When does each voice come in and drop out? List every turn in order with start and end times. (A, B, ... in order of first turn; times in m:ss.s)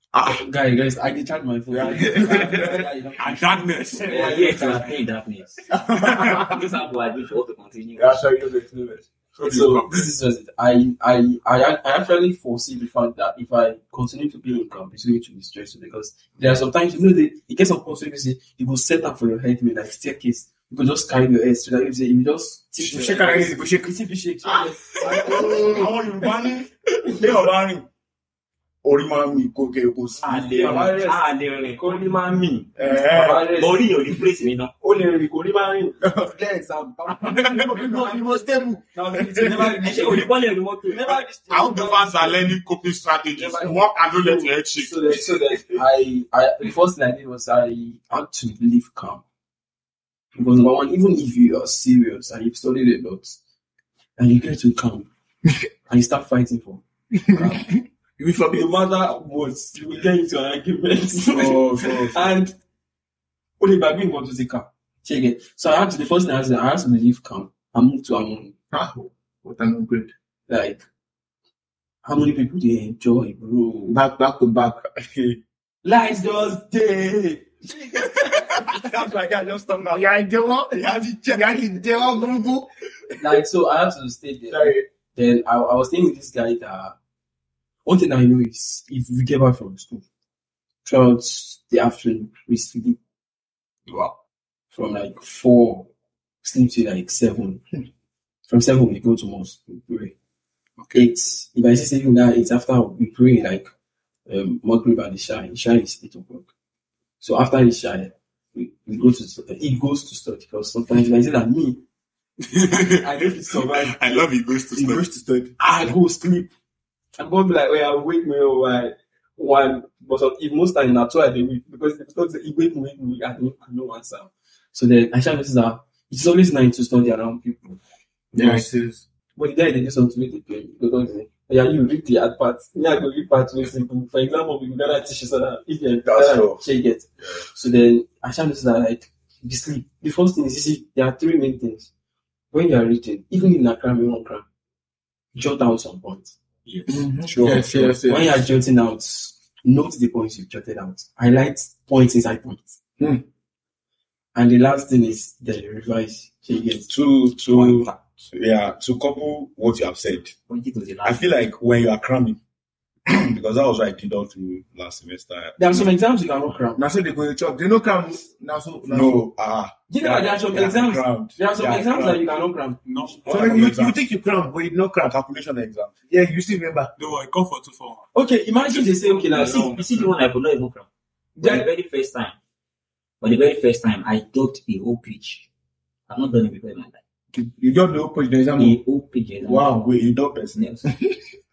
0:00.2-0:04.9 A
0:01.7-0:02.8 B
0:03.2-0:04.8 C
0:04.1-0:08.2 D
0:05.7-0:06.6 B
0:08.0-0:09.1 B
0:09.4-0:10.1 C
0:09.4-0:25.9 A
0:22.8-0:23.9 B
0:25.0-0:25.9 B
0:25.2-0:27.9 E
0:25.3-0:26.6 C
0:28.8-0:30.9 E
0:30.2-0:32.3 D
0:30.5-0:33.9 A
0:32.8-0:33.4 B
0:33.4-0:34.7 D
0:34.8-0:42.6 A
0:36.0-0:36.3 B
0:37.4-0:39.8 B
0:39.8-0:41.2 D
0:41.5-0:45.1 C
0:43.3-0:49.2 A
0:50.4-0:53.4 A
0:54.2-0:55.1 A
0:55.9-0:57.8 A
0:57.3-0:58.7 B
0:58.5-1:02.6 A
1:01.2-1:02.3 E
1:03.6-1:08.5 A
1:08.7-1:10.1 B
1:10.5-1:10.8 A
1:12.0-1:14.0 A
1:13.9-1:14.9 B
1:15.8-1:18.8 A
1:18.7-1:20.0 E
1:19.9-1:22.7 B
1:20.7-1:21.8 E
1:23.2-1:27.0 A
1:24.5-1:24.8 B
1:27.8-1:30.0 A
1:30.8-1:33.0 A
1:34.7-1:35.9 A
1:36.4-1:37.6 A
1:38.5-1:40.1 A
1:40.9-1:43.7 A
1:44.3-1:46.5 A
1:47.2-1:51.8 A
1:52.4-1:55.1 C
1:52.9-1:54.3 A
1:54.7-1:55.5 B
1:55.6-1:56.5 A
1:57.2-2:07.8 A
2:08.3-2:09.0 B
2:08.4-2:08.7 E
2:09.4-2:21.9 A
2:16.0-2:16.6 E
2:22.5-2:24.4 A
2:25.3-2:26.4 A
2:26.7-2:27.9 C
2:26.9-2:28.3 B
2:27.4-2:27.7 E
2:28.0-2:32.8 A
2:34.4-2:36.9 A
2:36.9-2:40.3 E
2:37.5-2:37.8 C
2:40.5-2:41.3 D
2:41.0-2:42.4 E
2:43.1-2:45.7 E
2:45.6-2:46.8 A
2:46.8-2:49.2 B
2:48.9-2:52.3 E
2:49.9-2:52.8 A
2:52.8-2:53.8 C
2:53.3-2:54.0 E
2:53.3-2:55.1 B
2:55.0-2:55.9 E
2:56.1-2:56.9 B
2:57.0-2:58.1 C
2:58.1-2:59.8 A
2:58.6-3:00.1 C
2:59.4-3:00.9 D
3:01.4-3:01.7 A
3:01.4-3:02.4 D
3:03.2-3:05.5 D
3:06.1-3:07.0 D
3:07.3-3:08.8 B
3:08.6-3:09.9 D
3:09.4-3:10.6 E
3:09.5-3:09.8 B
3:10.6-3:10.8 D
3:10.9-3:11.2 B